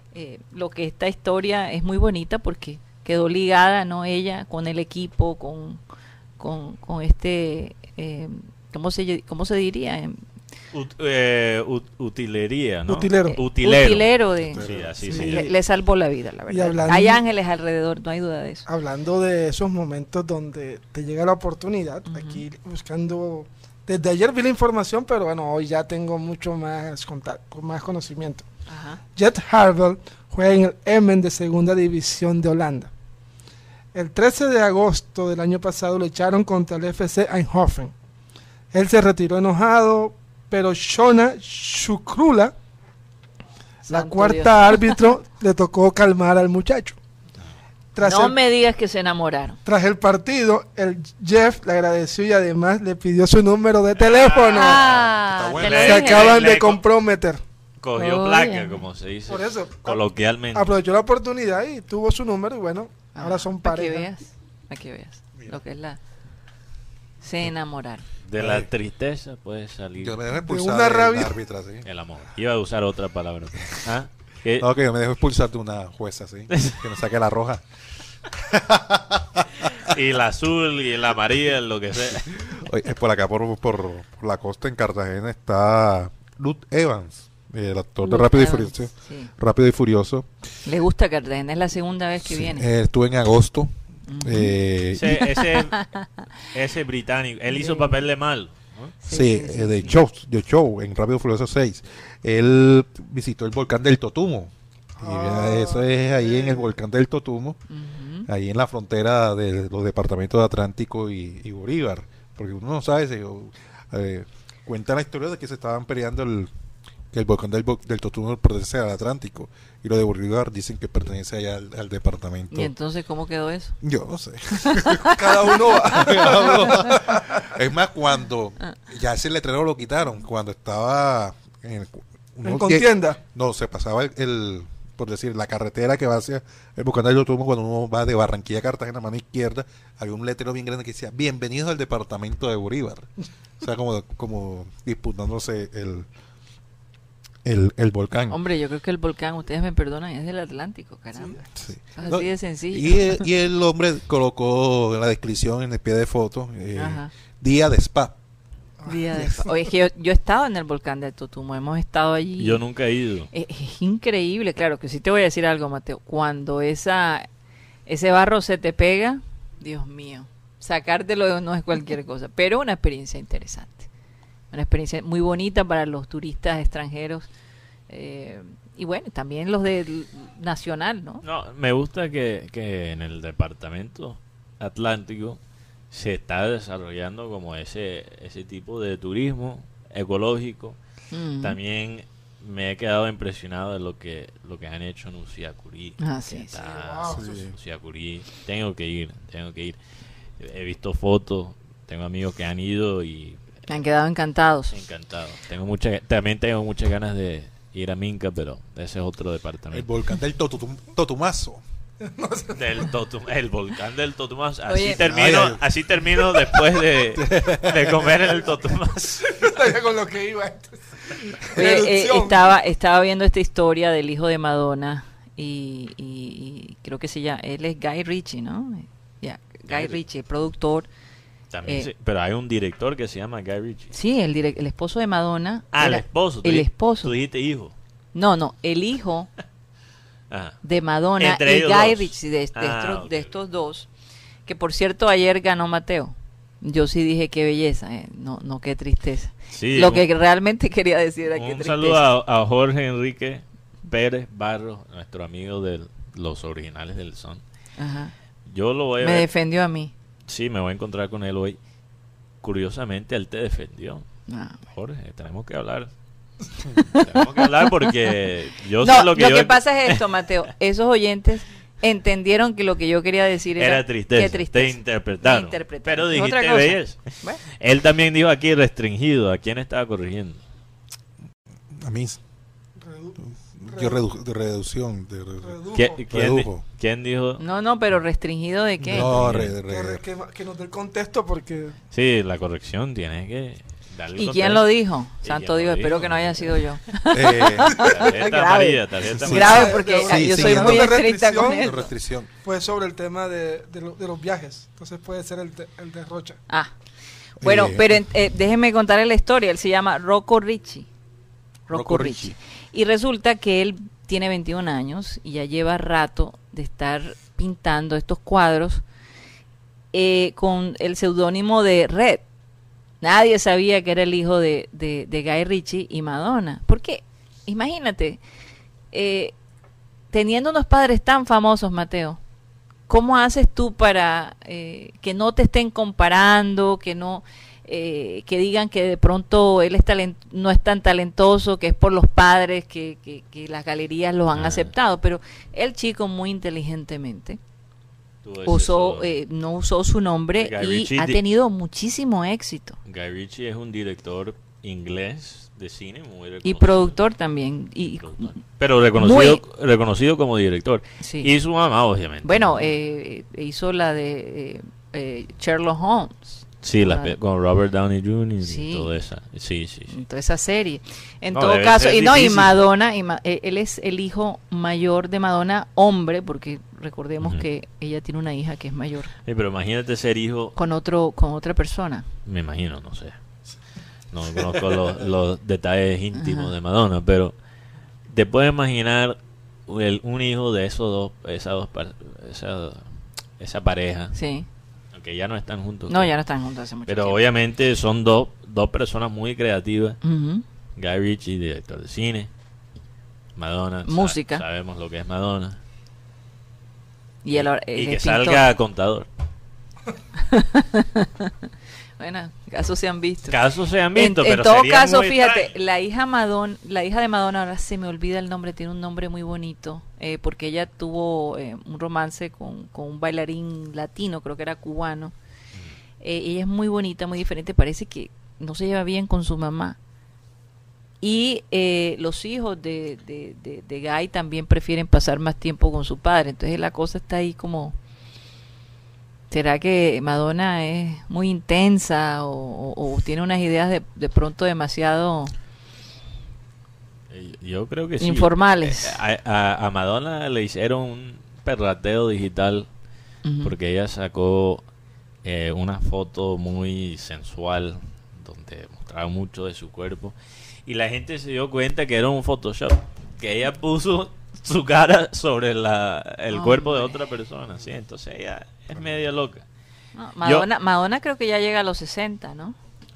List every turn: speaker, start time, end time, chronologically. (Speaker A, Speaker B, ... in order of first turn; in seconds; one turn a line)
Speaker A: 0.1-5.8
Speaker A: 6.4-10.2
Speaker B: 10.7-15.5
Speaker C: 12.9-13.4
Speaker A: 13.3-18.6
Speaker D: 14.5-15.2
Speaker C: 15.1-15.5
Speaker C: 16.5-17.2
Speaker C: 18.7-28.5
Speaker A: 22.1-22.4
Speaker A: 28.7-29.0
Speaker C: 29.1-32.9
Speaker C: 33.9-37.9
Speaker C: 38.7-42.5
Speaker A: 43.9-45.1
Speaker C: 43.9-47.0
Speaker C: 48.0-48.4
Speaker A: 48.0-49.6
Speaker C: 49.6-54.8
Speaker B: 54.0-56.8
Speaker A: 54.5-56.4
Speaker D: 54.9-55.9
Speaker C: 55.7-57.4
Speaker B: 57.8-60.8
Speaker A: 58.0-58.9
Speaker C: 59.3-64.1
Speaker A: 63.1-66.0
Speaker D: 65.4-65.6
Speaker A: 67.2-68.0
Speaker B: 68.2-70.2
Speaker D: 68.4-68.7
Speaker D: 70.0-71.9
Speaker C: 70.5-71.3
Speaker B: 71.8-74.7
Speaker D: 74.6-77.6
Speaker B: 76.5-76.8
Speaker D: 78.3-79.7
Speaker B: 79.7-82.5
Speaker D: 82.4-90.3
Speaker A: 88.0-89.3
Speaker A: 90.6-92.7
Speaker D: 92.2-95.4
Speaker A: 94.1-94.5
Speaker B: 95.0-95.9
Speaker A: 95.1-96.2
Speaker B: 96.5-98.9
Speaker A: 97.5-98.0
Speaker A: 99.0-100.0
Speaker D: 99.0-107.6
Speaker C: 105.0-106.7
Speaker A: 107.7-108.3
Speaker D: 108.2-116.5
Speaker D: 117.1-122.7
Speaker A: 122.5-123.8
Speaker D: 123.8-143.1
Speaker A: 124.6-125.2
Speaker C: 125.1-127.3
Speaker C: 132.4-133.2
Speaker D: 143.6-146.1
Speaker D: 147.4-148.4
Speaker A: 148.3-151.4
Speaker C: 151.2-151.5
Speaker D: 151.6-158.2
Speaker A: 151.9-153.2
Speaker A: 156.8-157.1
Speaker C: 158.8-159.3
Speaker A: 158.9-162.6
Speaker B: 162.4-163.3
Speaker A: 163.3-167.3
Speaker A: 167.9-173.9
Speaker A: 174.5-177.3
Speaker A: 177.9-181.2
Speaker B: 181.2-185.4
Speaker B: 185.9-190.8
Speaker A: 191.1-191.6
Speaker B: 191.4-199.8
Speaker A: 196.0-196.6
Speaker C: 196.5-197.4
Speaker D: 197.1-197.6
Speaker B: 200.4-203.4
Speaker A: 203.7-204.8
Speaker B: 204.7-209.9
Speaker D: 209.7-211.6
Speaker C: 212.0-212.9
Speaker B: 212.6-219.4
Speaker A: 214.7-215.1
Speaker D: 215.1-216.6
Speaker D: 217.1-218.1
Speaker C: 219.3-222.5
Speaker A: 221.6-230.9
Speaker B: 229.7-230.0
Speaker B: 231.5-233.9
Speaker A: 233.9-237.1
Speaker B: 235.7-237.7
Speaker A: 238.1-239.3
Speaker B: 240.3-240.6
Speaker A: 240.6-243.9
Speaker B: 241.2-243.3
Speaker A: 244.5-252.0
Speaker B: 249.5-250.1
Speaker B: 251.3-257.4
Speaker A: 257.8-258.1
Speaker B: 258.5-259.3
Speaker A: 259.0-259.9
Speaker B: 260.3-261.6
Speaker B: 262.4-264.1
Speaker A: 264.3-264.6
Speaker B: 264.7-265.9
Speaker B: 266.8-270.0
Speaker A: 266.9-268.1
Speaker A: 268.8-277.4
Speaker B: 273.6-280.4
Speaker D: 281.7-282.2
Speaker C: 282.8-284.0
Speaker D: 283.6-286.6
Speaker C: 285.4-286.0
Speaker B: 285.7-287.4
Speaker A: 287.4-289.1
Speaker D: 288.8-290.0
Speaker B: 289.1-289.5
Speaker C: 289.6-291.8
Speaker B: 291.9-294.7
Speaker A: 294.1-301.9
Speaker B: 295.2-296.5
Speaker D: 297.1-297.9
Speaker B: 297.9-299.8
Speaker D: 299.2-302.3
Speaker C: 299.3-301.7
Speaker C: 302.4-306.4
Speaker D: 307.4-308.0
Speaker A: 307.4-310.9
Speaker A: 311.7-318.8
Speaker D: 311.7-312.4
Speaker A: 319.9-322.2
Speaker A: 323.0-328.2
Speaker A: 328.9-329.4
Speaker A: 330.1-332.2
Speaker A: 332.9-347.4
Speaker B: 344.4-344.7
Speaker B: 348.2-349.1
Speaker A: 348.5-352.8
Speaker B: 350.4-351.2
Speaker B: 352.9-357.0
Speaker A: 356.4-358.4
Speaker B: 358.0-362.8
Speaker A: 359.0-359.4
Speaker A: 361.0-361.3
Speaker A: 362.2-367.2
Speaker B: 366.6-370.0
Speaker A: 368.4-368.9
Speaker A: 369.9-379.1
Speaker B: 371.3-372.6
Speaker B: 379.2-380.6
Speaker A: 380.6-382.1
Speaker B: 382.3-383.1
Speaker B: 384.1-387.3
Speaker A: 386.1-386.5
Speaker B: 388.1-392.9
Speaker B: 393.4-394.1
Speaker A: 394.1-394.5
Speaker B: 394.9-396.1
Speaker A: 395.9-397.2
Speaker B: 396.9-400.0
Speaker A: 400.0-400.4
Speaker B: 400.8-402.3
Speaker B: 403.4-405.6
Speaker A: 403.9-404.4
Speaker A: 407.2-408.4
Speaker B: 407.3-409.1
Speaker A: 410.2-411.3
Speaker A: 412.0-413.4
Speaker B: 413.3-415.5
Speaker A: 413.9-425.1
Speaker A: 426.0-429.8
Speaker A: 431.0-437.8
Speaker A: 439.3-445.3
Speaker B: 447.1-452.7
Speaker A: 448.0-449.0
Speaker A: 453.2-453.5
Speaker B: 453.4-454.6
Speaker B: 455.2-469.4
Speaker A: 466.3-467.0
Speaker A: 469.9-472.6